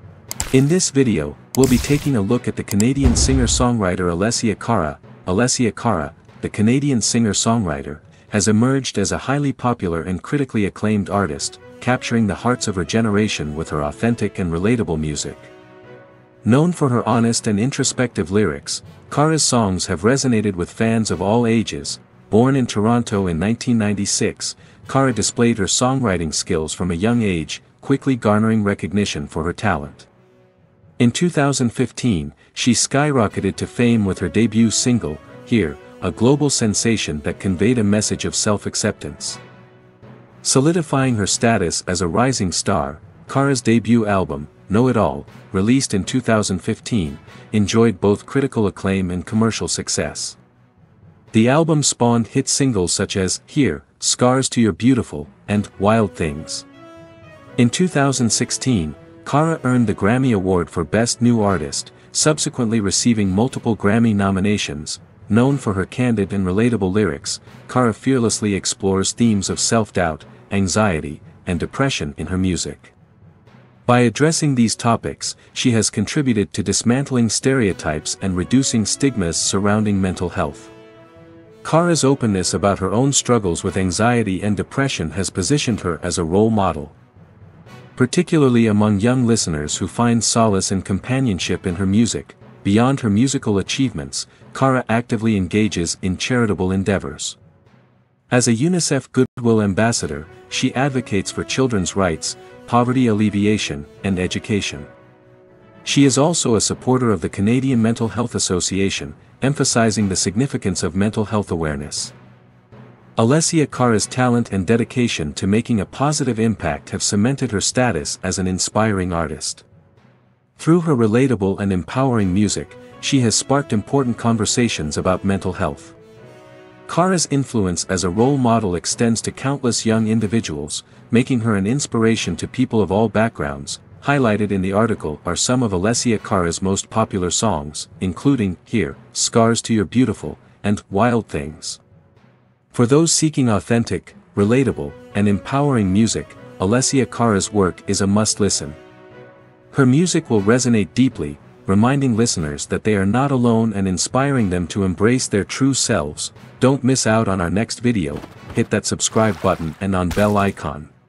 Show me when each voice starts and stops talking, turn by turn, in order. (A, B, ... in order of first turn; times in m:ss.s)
0:00.5-0:15.5 A
0:16.4-0:30.1 A
0:31.0-0:39.4 A
0:40.4-0:50.4 A
0:51.3-0:56.7 A
0:57.6-1:12.9 A
1:13.9-1:20.7 A
1:21.6-1:27.0 A
1:28.0-1:37.4 A
1:38.3-1:44.9 A
1:45.8-1:52.1 A
1:53.2-1:59.6 A
2:00.6-2:06.0 A
2:06.9-2:21.8 A
2:22.7-2:28.8 A
2:29.7-2:40.9 A